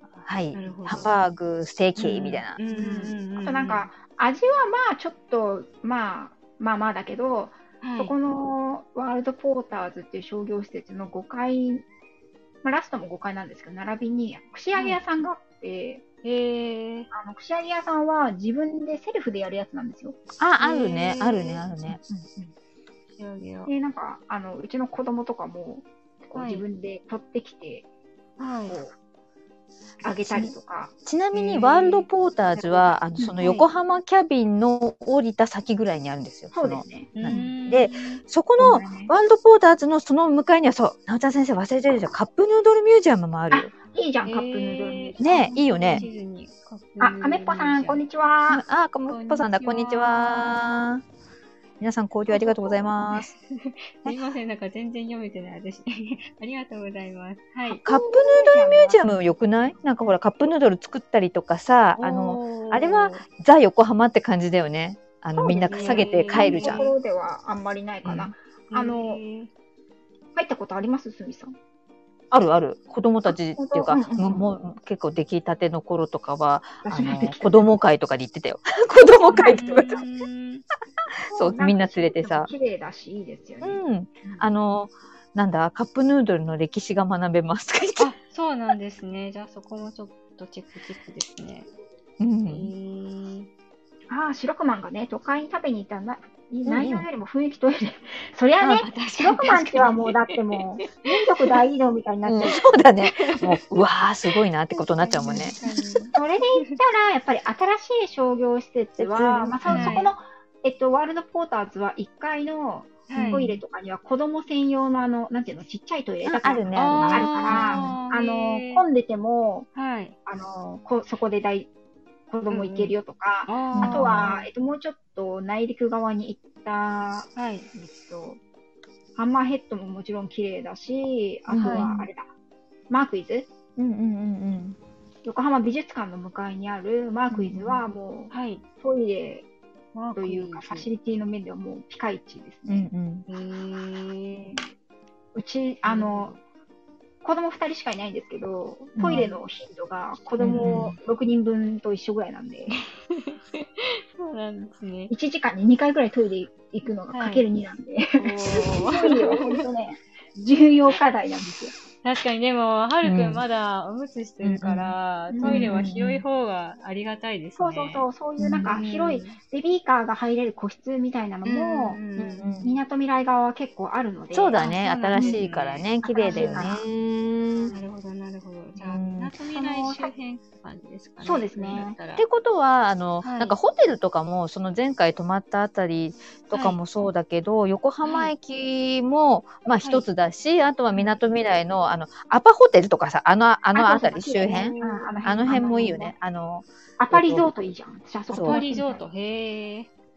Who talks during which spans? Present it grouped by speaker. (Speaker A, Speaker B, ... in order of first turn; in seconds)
Speaker A: 0.2-2.6, 20.4-22.0, 30.2-30.5, 31.0-43.7, 45.2-46.0, 48.5-51.0, 51.8-53.3, 57.8-66.9, 68.0-68.3, 72.3-80.0, 81.3-82.5, 83.6-88.1, 92.2-92.7, 96.7-97.1, 102.2-105.6, 109.0-110.0, 116.2-117.9, 123.7-124.3, 131.5-132.1, 133.8-134.8, 142.7-143.2, 149.0-149.2, 150.4-150.9, 163.0-163.4, 164.4-166.2, 168.4-168.7, 172.2-172.8, 174.3-177.7, 178.8-179.3, 182.2-197.5, 198.3-198.6
Speaker B: 0.5-1.1, 2.0-3.9, 7.8-8.1, 14.7-15.0, 16.2-17.1, 20.6-21.6, 23.2-23.7, 26.4-26.6, 28.4-28.8, 31.3-32.8, 33.4-33.7, 37.2-38.2, 44.2-48.0, 49.1-50.6, 52.3-57.8, 62.0-63.2, 65.7-66.9, 68.7-69.5, 79.3-80.6, 88.0-91.7, 92.5-93.5, 98.7-101.5, 103.0-103.6, 104.7-106.8, 109.6-110.1, 113.1-113.6, 116.7-118.8, 119.7-120.2, 122.5-123.0, 123.5-124.5, 127.3-127.7, 131.6-132.0, 137.3-138.6, 139.9-140.9, 143.3-144.6, 145.8-146.4, 149.1-149.4, 150.5-150.8, 152.7-155.1, 157.1-157.4, 158.2-159.7, 162.0-168.1, 168.7-169.4, 171.4-172.6, 174.6-176.7, 177.7-182.2, 183.2-183.5, 186.5-186.8, 188.0-188.3, 194.5-195.9, 198.4-199.9
Speaker C: 2.7-11.8, 12.6-16.0, 17.1-20.2, 21.9-22.5, 23.7-27.9, 28.7-28.9, 30.0-30.9, 36.5-37.5, 38.6-39.1, 43.5-46.1, 47.0-48.6, 57.7-59.0, 65.3-69.2, 70.3-71.5, 73.3-74.5, 76.8-77.7, 79.3-79.6, 81.3-84.5, 94.1-102.6, 106.1-119.7, 120.2-121.7, 122.3-128.4, 129.2-132.3, 132.9-133.5, 135.2-139.4, 140.2-142.9, 145.3-146.3, 147.2-152.8, 155.1-161.7, 165.3-165.8, 167.6-172.0, 172.6-175.4, 176.0-176.8, 179.5-180.1, 181.2-182.0, 193.7-196.1, 197.0-199.0